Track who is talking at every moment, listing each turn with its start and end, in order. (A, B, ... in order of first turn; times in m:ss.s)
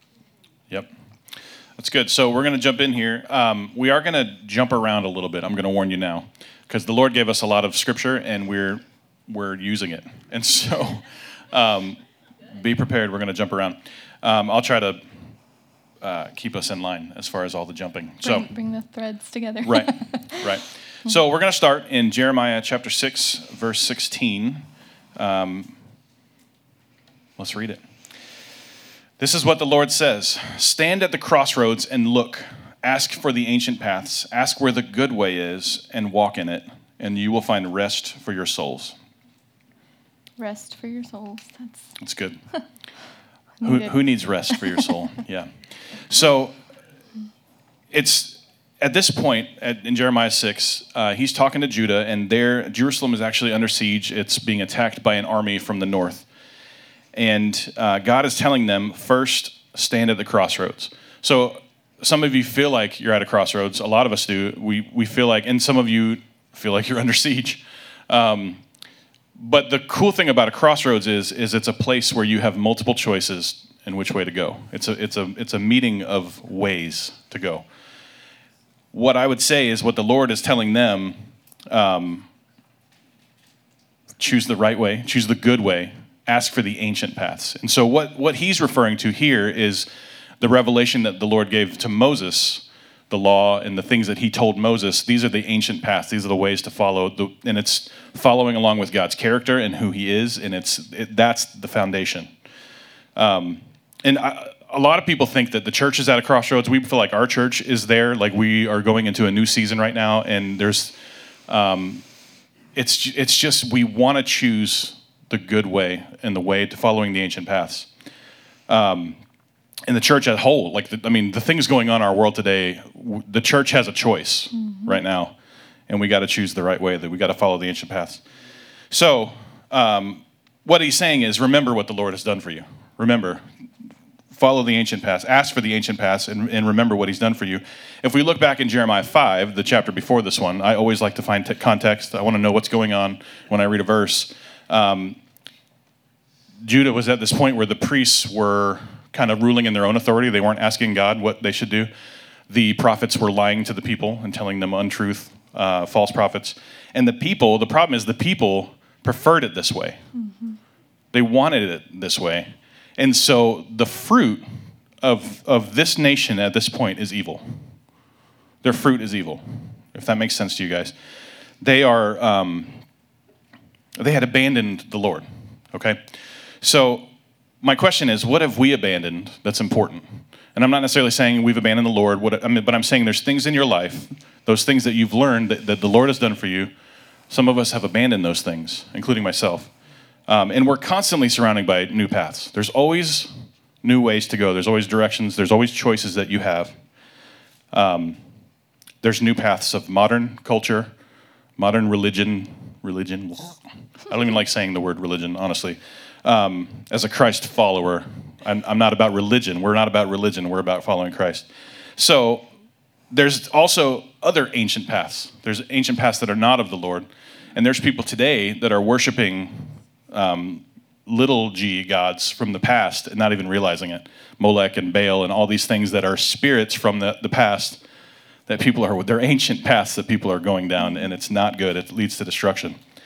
0:01.8-0:12.0 A
0:12.6-0:15.0 A
0:16.0-0:18.5 A
0:18.2-0:20.5 B
0:19.6-0:24.6 A
0:25.2-0:25.8 A
0:27.4-0:27.8 A
0:29.2-0:39.0 A
0:40.4-0:41.8 B
0:42.0-0:42.4 A
0:43.6-0:43.9 B
0:43.6-0:46.6 A
0:47.9-0:56.3 A
0:57.1-1:08.6 A
1:09.4-1:17.6 A
1:18.9-1:21.2 A
1:21.7-1:22.3 A
1:24.2-1:29.9 A
1:30.4-1:42.3 A
1:43.2-1:51.0 A
1:51.5-1:52.0 A
1:52.8-1:57.9 A
1:58.7-1:59.2 A
1:59.9-2:05.3 A
2:05.9-2:08.2 A
2:08.9-2:13.4 A
2:14.3-2:25.2 A
2:26.6-2:31.9 A
2:32.5-2:40.0 A
2:40.2-2:40.6 B
2:41.1-2:44.5 A
2:45.0-2:47.6 A
2:48.6-2:50.9 A
2:51.6-2:52.8 A
2:54.0-2:56.0 A
2:56.6-2:57.1 A
2:57.6-3:06.7 A
3:07.3-3:09.7 A
3:10.3-3:13.3 A
3:13.8-3:16.8 A
3:17.7-3:18.2 A
3:19.0-3:20.9 A
3:21.6-3:32.5 A
3:33.1-3:47.8 A
3:48.5-3:52.8 A